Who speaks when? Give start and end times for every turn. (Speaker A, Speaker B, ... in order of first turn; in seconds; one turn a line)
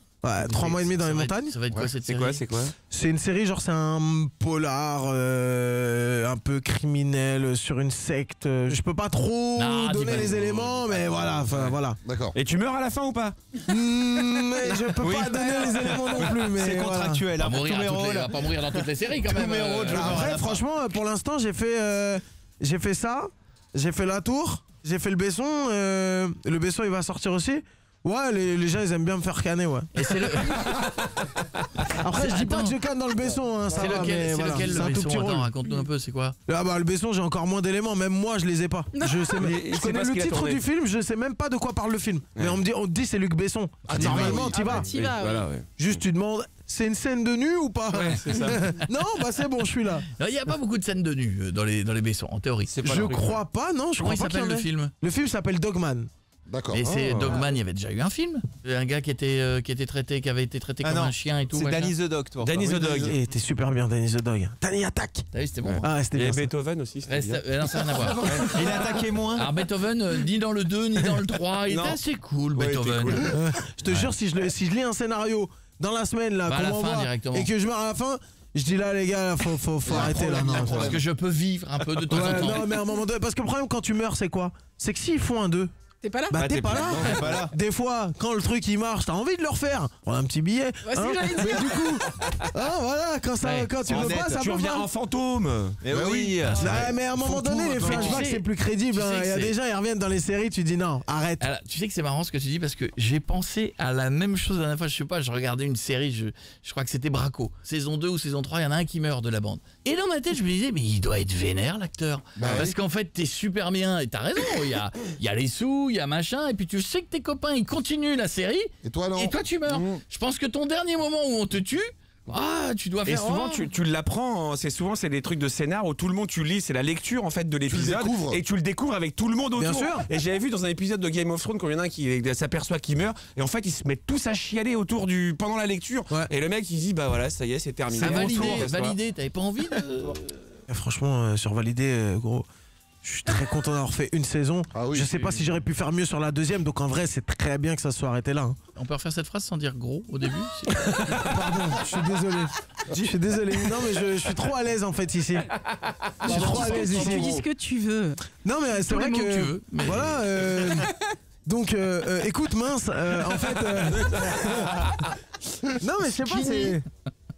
Speaker A: 0.2-1.6
Speaker B: 0.4-2.5
Speaker C: 2.1-2.7
Speaker A: 2.9-12.0
Speaker B: 9.6-11.5
Speaker D: 12.0-12.3
Speaker C: 12.3-13.4
Speaker A: 13.7-17.3
Speaker E: 15.1-20.6
Speaker C: 16.8-17.1
Speaker B: 17.4-20.3
Speaker A: 19.9-30.6
Speaker B: 29.9-30.8
Speaker A: 32.0-35.5
Speaker B: 32.1-32.8
Speaker B: 33.7-36.4
Speaker A: 36.5-45.0
Speaker F: 38.9-39.4
Speaker C: 39.4-40.6
Speaker B: 43.9-44.8
Speaker C: 43.9-45.7
Speaker F: 44.5-45.5
Speaker A: 45.8-50.1
Speaker C: 47.9-48.6
Speaker B: 50.2-53.3
Speaker C: 52.8-53.3
Speaker A: 52.8-56.1
Speaker B: 54.0-54.9
Speaker D: 56.5-57.1
Speaker B: 56.7-61.9
Speaker C: 56.9-57.5
Speaker E: 60.8-62.8
Speaker C: 62.4-63.2
Speaker A: 62.8-65.3
Speaker B: 65.3-65.9
Speaker A: 65.8-66.5
Speaker C: 66.2-68.6
Speaker B: 67.0-73.3
Speaker E: 68.3-69.5
Speaker C: 71.7-72.0
Speaker C: 72.5-73.3
Speaker A: 73.3-81.0
Speaker B: 76.5-77.5
Speaker D: 79.8-81.0
Speaker B: 80.5-82.7
Speaker A: 82.1-85.7
Speaker F: 86.0-86.4
Speaker A: 86.3-94.9
Speaker C: 86.4-87.5
Speaker E: 86.9-87.5
Speaker F: 90.8-92.0
Speaker B: 93.4-93.7
Speaker C: 93.8-96.7
Speaker E: 95.8-96.9
Speaker D: 96.0-96.3
Speaker B: 96.6-99.5
Speaker A: 96.6-101.5
Speaker B: 101.4-123.7
Speaker D: 112.4-112.8
Speaker D: 118.8-120.0
Speaker C: 123.0-139.0
Speaker D: 127.7-128.4
Speaker A: 129.6-130.1
Speaker B: 137.9-140.3
Speaker E: 138.2-138.7
Speaker A: 140.7-142.5
Speaker A: 143.0-148.6
Speaker D: 144.7-145.4
Speaker B: 148.8-151.3
Speaker A: 151.2-155.5
Speaker F: 156.2-158.2
Speaker D: 156.2-157.3
Speaker A: 156.2-157.4
Speaker A: 158.4-160.9
Speaker B: 158.7-160.2
Speaker A: 161.4-164.3
Speaker A: 165.8-166.8
Speaker D: 166.2-166.8